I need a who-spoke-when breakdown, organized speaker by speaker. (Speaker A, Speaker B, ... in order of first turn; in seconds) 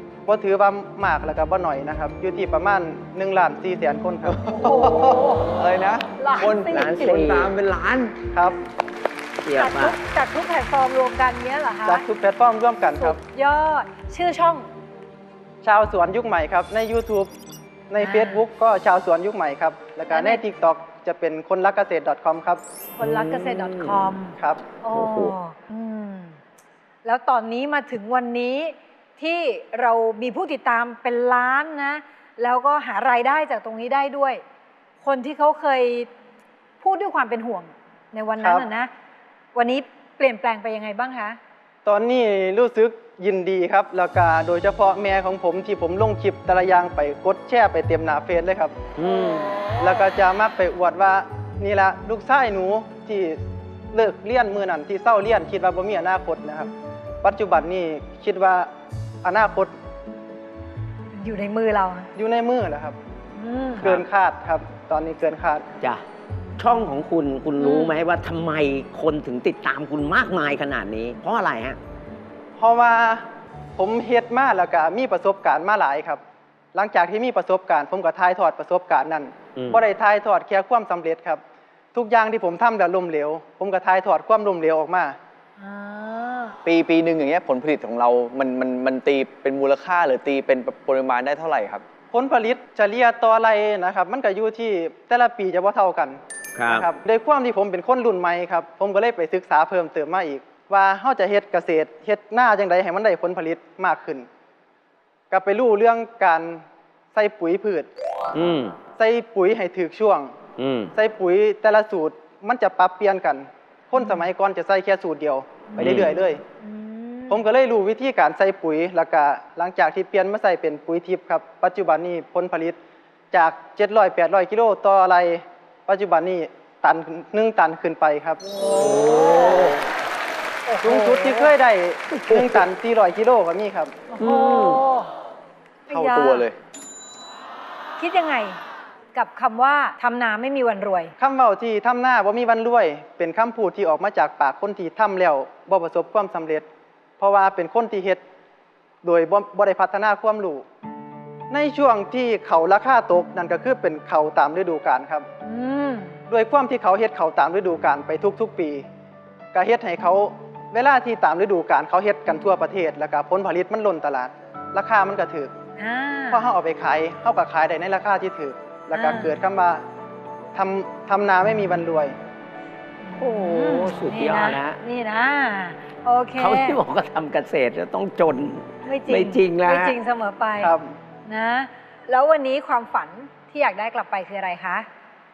Speaker A: 0.3-5.0, 8.3-8.6, 11.8-13.2, 15.6-17.3, 17.9-22.6, 38.4-38.7, 41.9-48.8, 49.8-53.4, 53.9-56.7, 57.2-58.7, 59.2-59.7, 62.2-63.0, 63.8-65.6, 72.6-76.2, 76.8-81.4, 82.0-85.2, 92.1-104.3, 105.3-107.9, 109.0-110.3, 111.0-116.4, 117.3-122.8, 123.3-128.4, 130.8-133.9, 141.2-146.7, 147.2-148.2, 149.0-150.7, 151.5-155.3, 156.3-158.8, 159.5-165.5, 166.3-169.8, 170.6-172.2, 180.6-180.9
Speaker B: 4.4-5.6, 6.2-7.3, 9.6-12.1, 13.0-14.7, 18.0-18.4, 20.1-20.4, 23.0-26.4, 27.1-34.4, 35.0-36.1, 36.8-38.9, 39.5-41.4, 49.0-50.0, 61.1-62.1, 63.4-63.9, 67.6-68.0, 85.6-86.6, 113.9-114.3, 115.7-116.1, 116.6-117.5, 128.5-129.8, 130.7-131.5, 134.1-135.1, 135.9-136.5, 138.0-138.6, 139.1-141.1, 155.4-156.2, 165.8-166.6, 168.9-169.4, 173.0-176.8, 178.8-184.9
Speaker C: 5.5-8.2, 86.7-91.8, 135.9-136.6
Speaker D: 6.7-7.5, 9.4-10.0, 23.0-24.1, 24.9-25.3, 49.0-49.6, 66.6-71.8, 79.6-79.8, 96.6-96.9, 108.3-108.8, 110.6-110.9, 115.8-116.1, 128.7-129.8, 132.3-132.6, 134.2-134.8, 173.2-174.8, 176.4-180.0